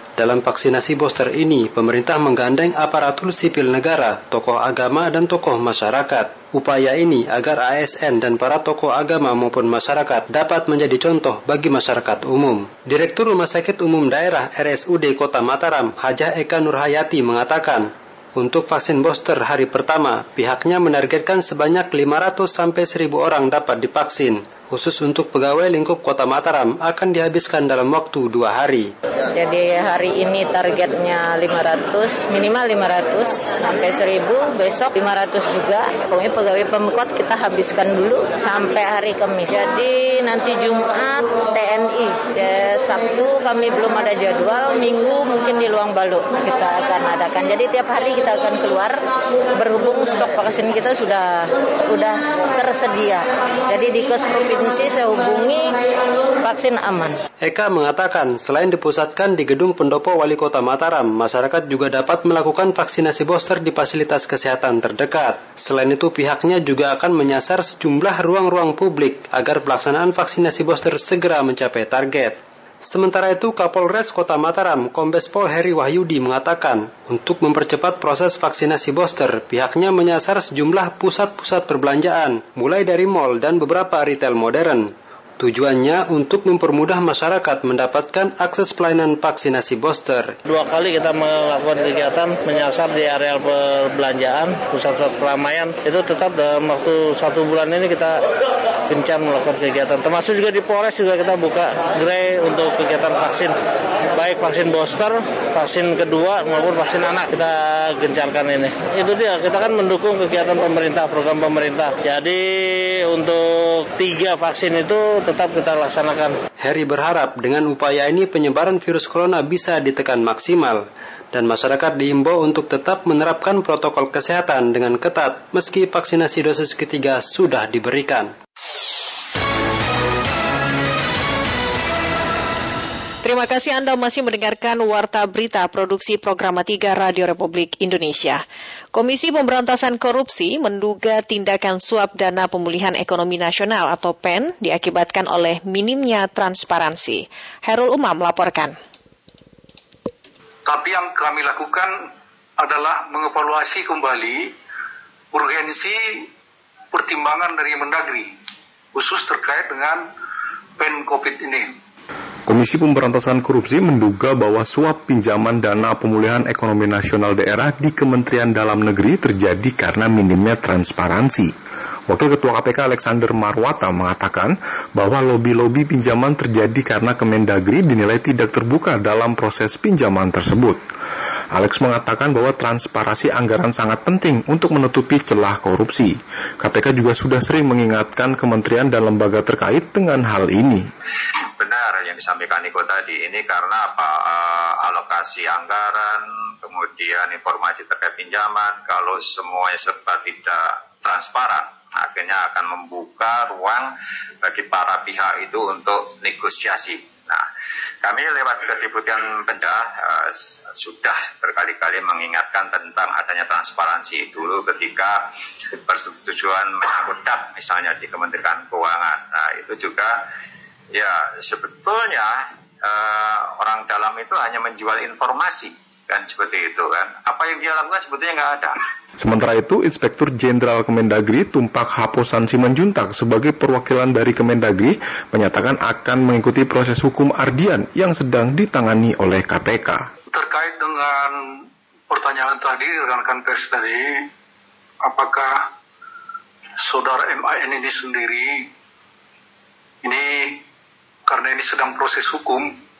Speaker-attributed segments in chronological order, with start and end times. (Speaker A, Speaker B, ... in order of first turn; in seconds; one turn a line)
Speaker A: 0.2-28.9
Speaker B: 29.3-55.8
Speaker B: 56.4-57.2
Speaker A: 57.4-90.3
Speaker C: 90.5-98.2
Speaker C: 98.9-103.5
Speaker C: 104.1-116.3
Speaker A: 116.6-128.3
Speaker D: 133.2-138.4
Speaker D: 138.9-148.7
Speaker E: 150.7-154.5
Speaker E: 155.3-156.3
Speaker E: 156.9-158.3
Speaker E: 158.9-160.0
Speaker E: 160.8-161.8
Speaker F: 162.5-171.5
Speaker F: 172.1-180.8
Speaker F: 181.5-190.9
Speaker G: 191.6-203.9
Speaker G: 204.4-207.4
Speaker G: 208.0-220.2
Speaker G: 220.9-228.8
Speaker F: 229.2-240.1
Speaker E: 240.3-244.3
Speaker E: 245.0-245.7
Speaker E: 246.8-248.7
Speaker E: 250.0-250.6
Speaker E: 251.3-252.7